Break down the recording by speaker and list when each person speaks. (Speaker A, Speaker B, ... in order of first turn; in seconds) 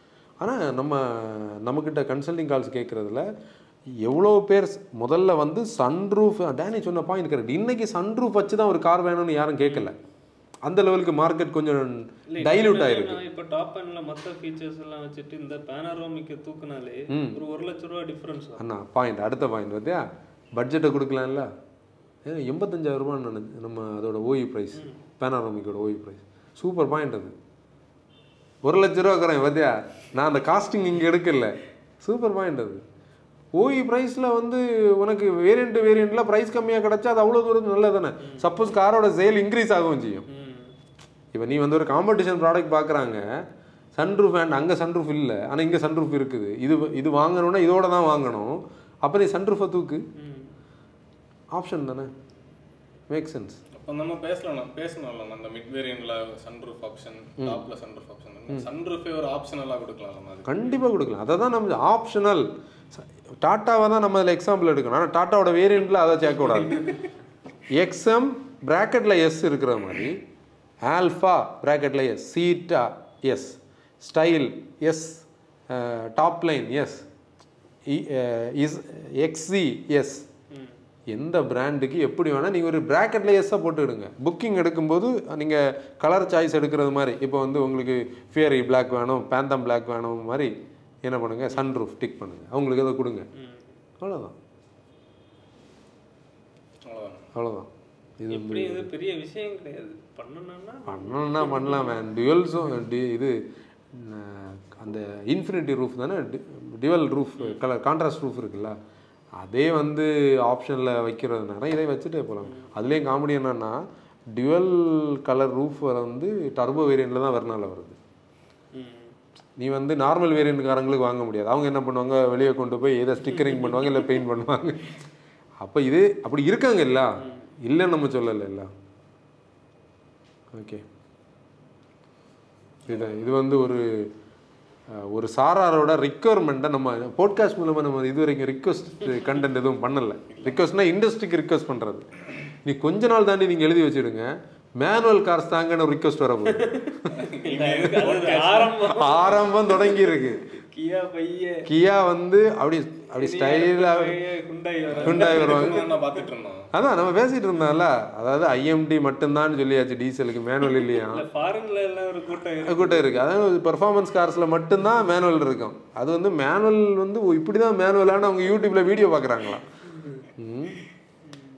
Speaker A: 0.4-3.2, 4.0-9.9, 10.7-13.2, 17.1-17.4, 18.6-21.5, 22.2-27.4, 28.6-32.8, 33.6-40.3, 41.3-43.2, 44.0-50.0, 51.5-52.1, 53.1-53.6, 60.5-66.9, 67.7-70.2, 70.8-77.0, 77.9-80.3, 81.1-90.5, 91.0-93.3, 94.0-94.4, 97.3-98.9, 100.9-103.4, 103.9-108.8, 109.4-118.0, 119.6-125.0, 125.6-128.7, 130.5-130.8, 132.9-134.1, 134.9-142.1, 142.6-147.1, 148.9-150.4, 151.7-154.2, 155.1-155.8, 156.7-161.2, 162.6-169.7, 170.3-170.8
Speaker B: 12.3-18.6, 24.7-25.0, 38.2-38.5, 40.3-40.7, 50.2-50.5, 93.3-93.8, 98.3-102.0, 112.5-112.7, 118.7-119.2, 123.3-124.0, 127.2-127.5, 146.7-151.7, 153.2-156.2, 160.7-163.1, 170.0-170.3
Speaker C: 53.7-60.6, 96.8-97.3, 140.3-140.7, 147.1-148.9, 154.9-156.7